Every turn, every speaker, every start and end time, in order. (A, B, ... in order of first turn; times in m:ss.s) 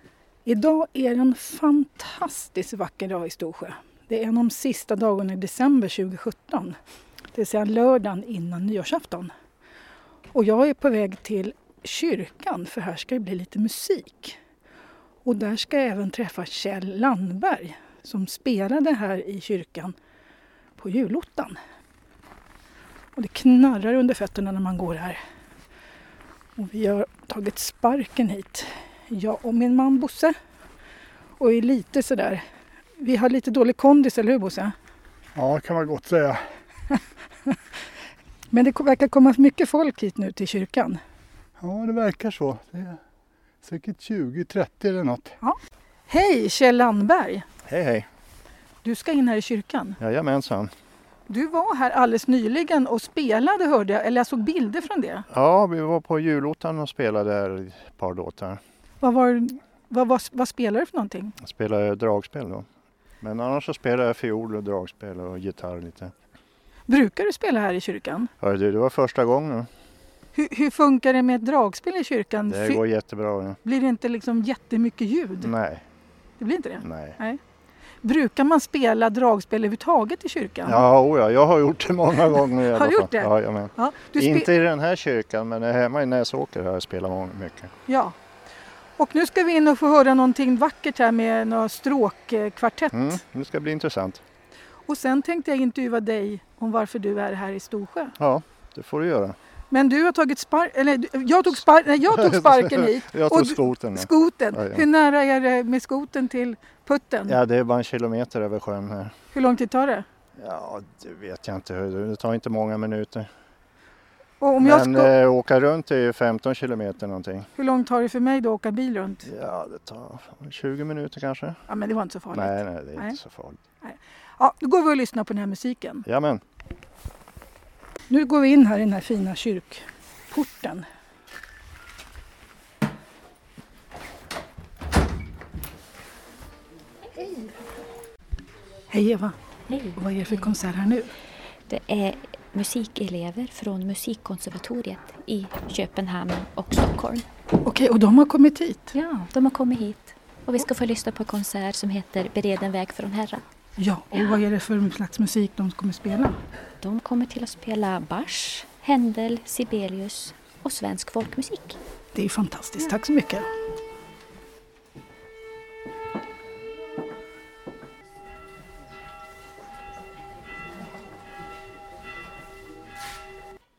0:00.4-0:06.8 A
0:07.3-0:09.3 A
0:10.3-0:14.4 A
0:15.2-0:19.9 A
0:20.8-0:21.6 A
0:23.2-0:25.2 A
0:26.6-0:30.4 A
0:31.4-0:32.4 A
0:33.0-0:34.7 A
0:35.3-0:36.4 B
0:38.5-0:41.0 A
0:41.6-0:43.0 B
0:43.6-0:45.4 B
0:46.1-0:47.4 A
0:47.6-0:48.1 C
0:48.8-0:50.0 A
0:50.0-0:50.7 C
0:51.3-0:55.2 A
0:55.3-0:58.6 C
0:59.0-1:01.3 A
1:01.4-1:02.7 C
1:03.2-1:06.1 C
1:06.9-1:08.3 A
1:08.4-1:09.7 C
1:10.3-1:12.8 A
1:12.5-1:13.6 C
1:13.6-1:15.5 A
1:15.4-1:15.9 C
1:16.4-1:17.4 A
1:16.8-1:17.2 C
1:18.0-1:20.8 A
1:20.6-1:27.7 C
1:22.7-1:24.5 A
1:27.9-1:28.1 A
1:29.0-1:33.2 A
1:32.9-1:34.2 C
1:34.9-1:38.1 A
1:38.2-1:39.4 C
1:39.7-1:47.4 A
1:42.0-1:44.8 C
1:47.3-1:49.2 C
1:49.3-1:50.0 A
1:50.4-1:53.3 C
1:54.4-1:55.1 A
1:54.6-1:57.5 C
1:57.6-1:59.3 A
1:59.2-2:01.6 C
2:01.7-2:03.2 A
2:02.3-2:03.6 C
2:03.8-2:06.0 A
2:06.0-2:06.4 C
2:08.1-2:10.8 A
2:17.2-2:17.4 A
2:18.9-2:19.4 A
2:19.7-2:20.5 D
2:20.0-2:21.1 A
2:21.7-2:27.2 D
2:27.6-2:29.0 A
2:28.9-2:33.4 D
2:33.8-2:36.4 A
2:36.8-2:41.8 D
2:42.1-2:43.5 A